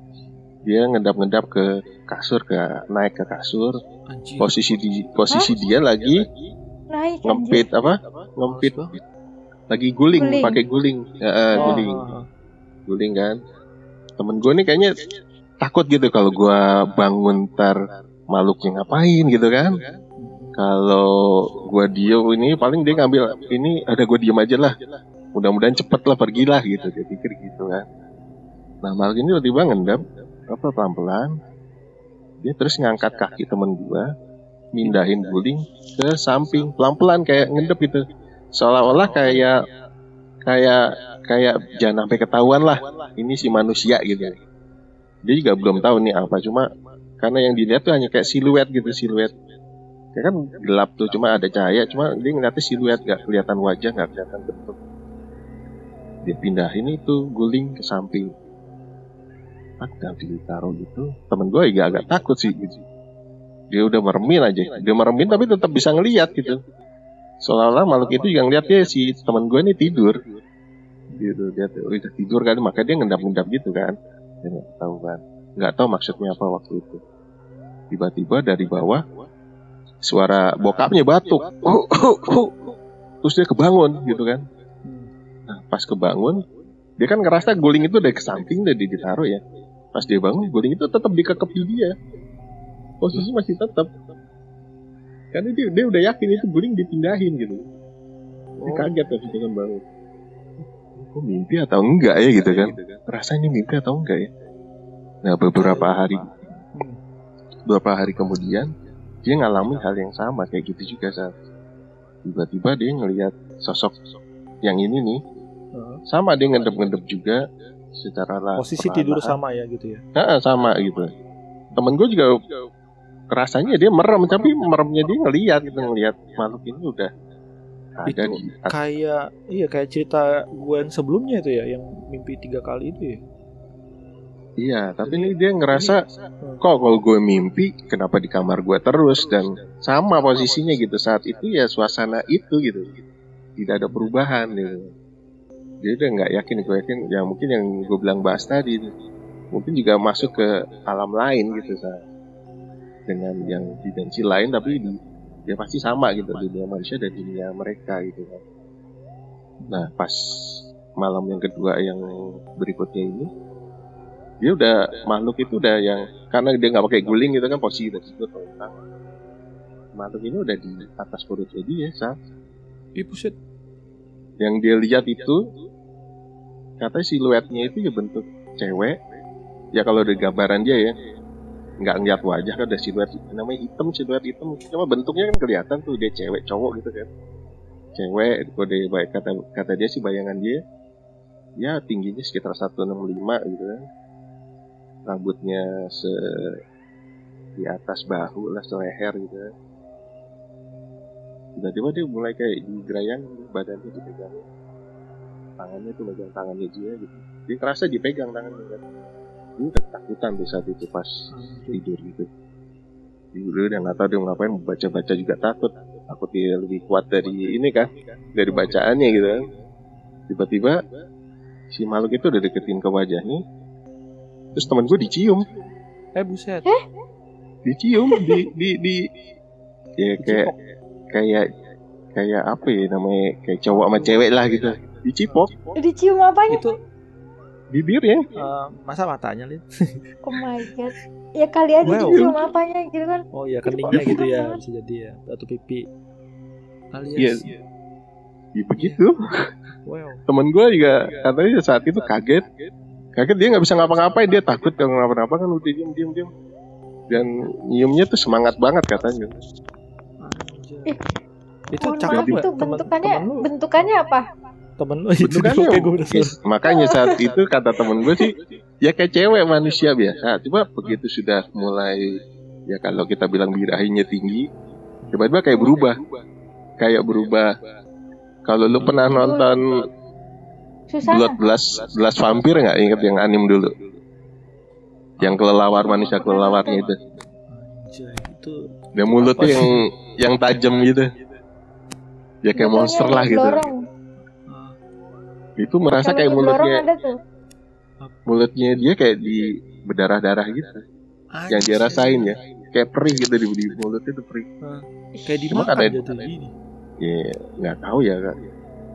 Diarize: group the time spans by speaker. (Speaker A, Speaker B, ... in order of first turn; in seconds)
Speaker A: 0.7-3.8, 4.4-6.2, 7.2-8.8, 9.7-12.2, 12.9-13.4, 14.2-14.9, 15.6-17.8, 18.3-19.8, 20.6-24.8, 25.3-27.8, 28.8-31.3, 32.4-34.1, 34.7-38.0, 38.6-39.5, 40.5-44.4, 45.2-46.7, 47.2-49.3, 50.1-54.8, 56.2-58.3, 59.8-62.8, 63.7-66.6, 67.4-70.2, 71.2-77.0, 77.9-79.0, 80.0-82.6, 83.2-84.5, 85.5-86.4, 87.0-89.4, 89.9-92.0, 93.0-93.9, 95.3-97.6, 98.7-99.8, 101.0-104.3, 105.2-106.3, 107.7-108.7, 109.2-111.3, 112.2-113.9, 114.6-115.2, 116.1-119.4, 120.2-121.1, 121.8-122.4, 123.3-127.1, 128.0-128.8, 134.6-136.0, 136.6-142.9, 143.6-144.9, 145.8-148.9, 149.5-152.0, 153.1-154.9, 155.5-158.4, 159.7-163.3, 164.4-168.8, 170.0-172.2, 174.4-175.4, 176.8-179.0, 179.7-180.9, 181.8-187.1, 188.0-190.6, 191.6-193.9, 195.1-196.6, 197.6-199.5, 201.6-204.4, 205.6-208.8, 209.6-212.3, 213.3-219.5, 220.3-220.8, 221.7-223.4, 224.6-225.5, 227.7-229.1, 230.0-230.5, 231.1-231.5, 232.2-235.5, 237.7-238.3, 242.1-242.3, 243.9-244.2, 247.2-247.5, 248.6-249.2, 250.3-252.5, 253.2-256.3, 257.1-259.4, 262.1-262.4, 265.2-274.5, 275.1-276.0, 276.8-277.5, 278.4-279.8, 281.1-283.7, 285.2-287.0, 289.0-291.1, 292.4-293.7, 295.6-296.9, 298.3-300.8, 301.5-304.5, 305.5-306.1, 307.0-308.4
Speaker B: 4.1-4.5, 8.5-9.0, 11.6-12.3, 20.2-20.6, 71.1-71.4, 98.6-99.0, 105.5-105.9, 115.8-116.0, 118.6-120.0, 128.1-133.2, 135.1-135.3, 153.4-153.8, 159.6-159.9, 173.0-173.3, 211.3-211.8, 218.5-218.8, 224.5-225.1, 226.2-226.7, 230.2-230.6, 233.7-234.3, 236.5-236.8, 238.3-240.1, 241.8-242.3, 243.3-245.9, 246.9-247.5, 249.9-250.2, 260.2-261.0, 261.7-263.9, 264.8-266.4, 278.7-279.3, 285.2-285.5, 287.5-289.9, 294.5-294.8, 298.0-298.3, 301.3-302.4, 304.6-306.5
Speaker C: 6.9-7.7, 10.2-10.6, 228.1-228.4, 235.8-236.6, 240.2-244.5, 261.8-264.3, 266.6-267.3, 267.9-268.3, 279.1-279.6, 280.9-281.4, 285.8-286.9, 292.6-293.8, 296.0-297.2